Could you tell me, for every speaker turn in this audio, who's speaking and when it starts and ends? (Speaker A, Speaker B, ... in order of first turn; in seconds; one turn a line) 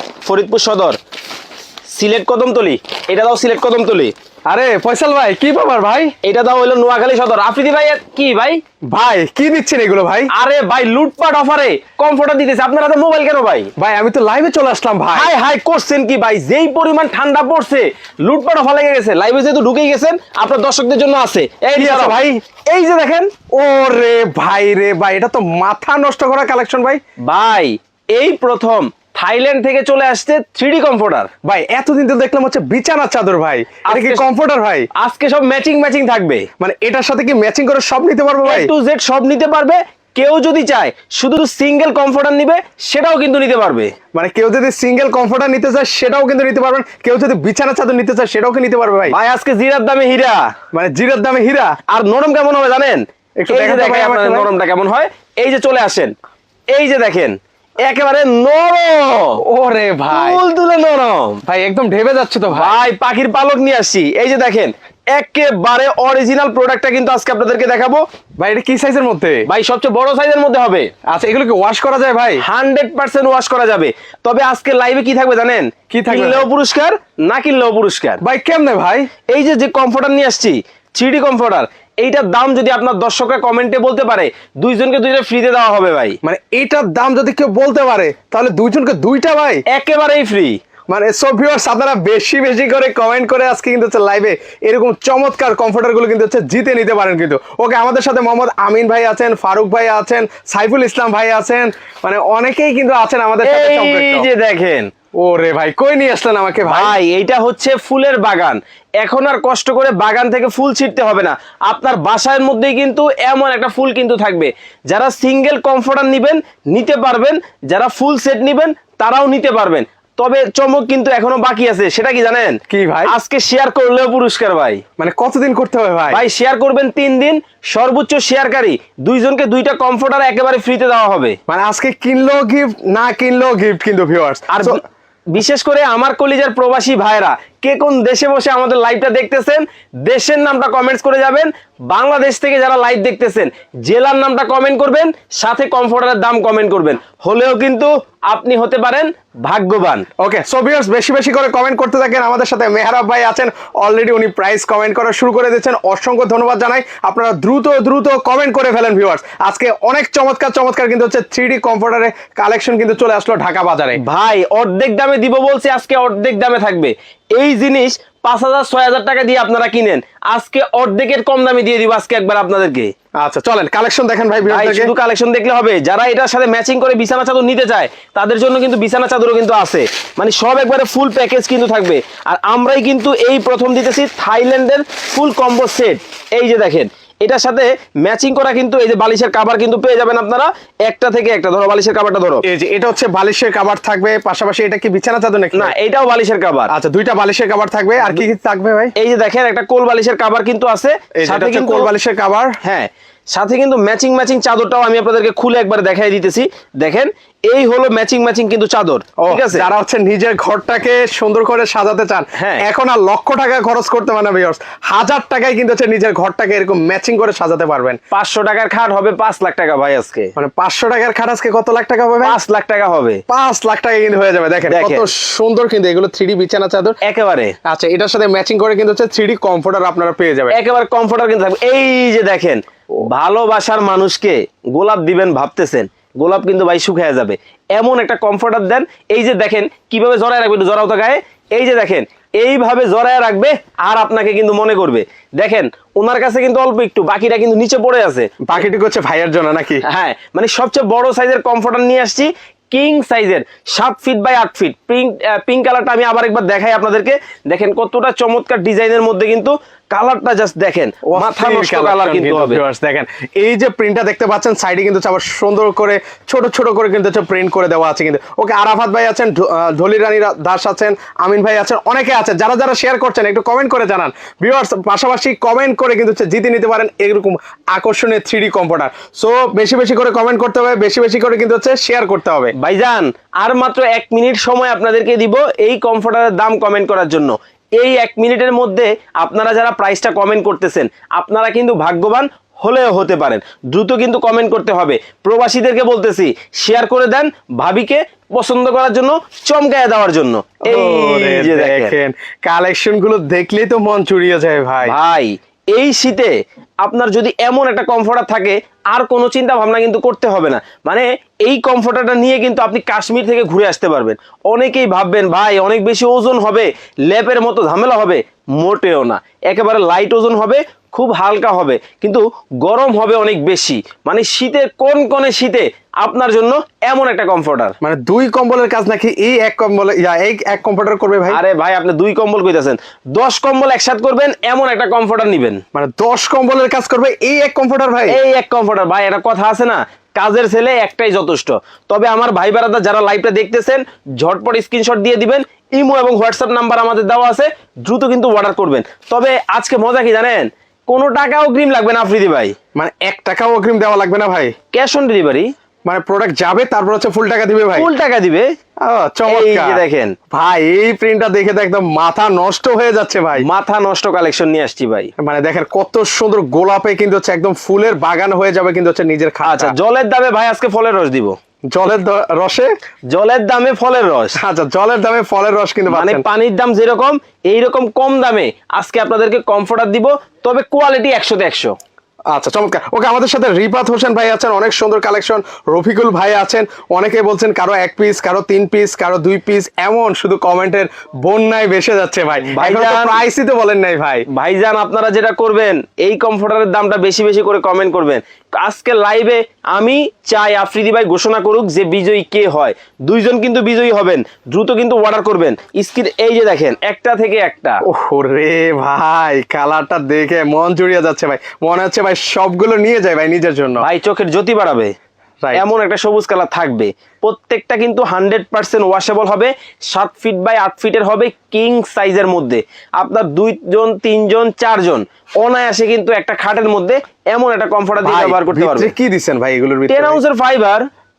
Speaker A: 0.2-1.0
Speaker A: 1.9-4.1
Speaker B: 4.5-6.2
Speaker A: 6.2-8.6
Speaker B: 8.9-10.3
Speaker A: 10.3-13.7
Speaker B: 13.8-15.3
Speaker A: 15.1-23.3
Speaker B: 21.8-22.4
Speaker B: 23.5-27.0
Speaker A: 27.2-31.3
Speaker B: 31.4-34.9
Speaker A: 33.9-34.3
Speaker A: 35.0-36.5
Speaker B: 36.6-38.7
Speaker A: 38.4-43.9
Speaker B: 44.1-49.1
Speaker A: 49.1-50.5
Speaker B: 50.7-51.8
Speaker A: 51.9-56.1
Speaker B: 53.4-54.5
Speaker A: 56.7-59.4
Speaker B: 59.4-60.4
Speaker A: 60.1-61.4
Speaker B: 61.5-62.8
Speaker A: 62.5-68.0
Speaker B: 68.4-69.4
Speaker A: 69.5-70.9
Speaker B: 71.1-72.4
Speaker A: 72.4-78.2
Speaker B: 75.9-76.5
Speaker B: 78.2-79.1
Speaker A: 79.3-86.2
Speaker B: 86.2-89.6
Speaker A: 89.7-90.6
Speaker B: 90.9-104.3
Speaker A: 103.4-104.9
Speaker B: 105.2-107.0
Speaker A: 106.7-124.8
Speaker B: 122.7-123.1
Speaker B: 125.0-126.2
Speaker A: 126.1-131.3
Speaker B: 131.5-134.8
Speaker A: 134.5-134.8
Speaker A: 135.3-150.1
Speaker B: 150.2-164.0
Speaker A: 164.0-172.9
Speaker B: 173.2-174.9
Speaker A: 174.5-192.4
Speaker B: 192.4-195.7
Speaker A: 195.5-196.7
Speaker B: 196.7-198.9
Speaker A: 199.0-201.9
Speaker B: 201.2-202.6
Speaker A: 202.6-209.7
Speaker B: 209.2-218.0
Speaker A: 212.3-212.7
Speaker A: 218.1-220.3
Speaker B: 220.3-222.4
Speaker A: 222.2-223.2
Speaker B: 223.3-227.0
Speaker A: 224.7-225.1
Speaker A: 227.0-227.5
Speaker B: 227.7-230.6
Speaker A: 230.5-248.3
Speaker B: 248.4-249.8
Speaker A: 249.8-262.6
Speaker B: 261.1-282.5
Speaker A: 282.6-301.9
Speaker B: 300.6-304.9
Speaker A: 304.8-327.7
Speaker B: 327.8-331.4
Speaker A: 331.3-335.6
Speaker B: 335.7-338.2
Speaker A: 338.1-352.5
Speaker B: 352.8-354.5
Speaker A: 354.7-355.5
Speaker B: 355.9-357.9
Speaker A: 357.7-358.5
Speaker B: 358.8-363.4
Speaker A: 359.3-360.1
Speaker A: 363.4-365.1
Speaker B: 365.2-369.7
Speaker A: 369.4-371.4
Speaker B: 371.7-372.7
Speaker A: 373.1-374.4
Speaker B: 374.4-376.2
Speaker A: 375.9-381.7
Speaker B: 382.3-394.2
Speaker A: 392.5-393.2
Speaker A: 394.3-407.8
Speaker B: 407.9-413.8
Speaker A: 413.8-414.9
Speaker A: 415.5-428.9
Speaker B: 428.0-430.2
Speaker A: 429.9-430.9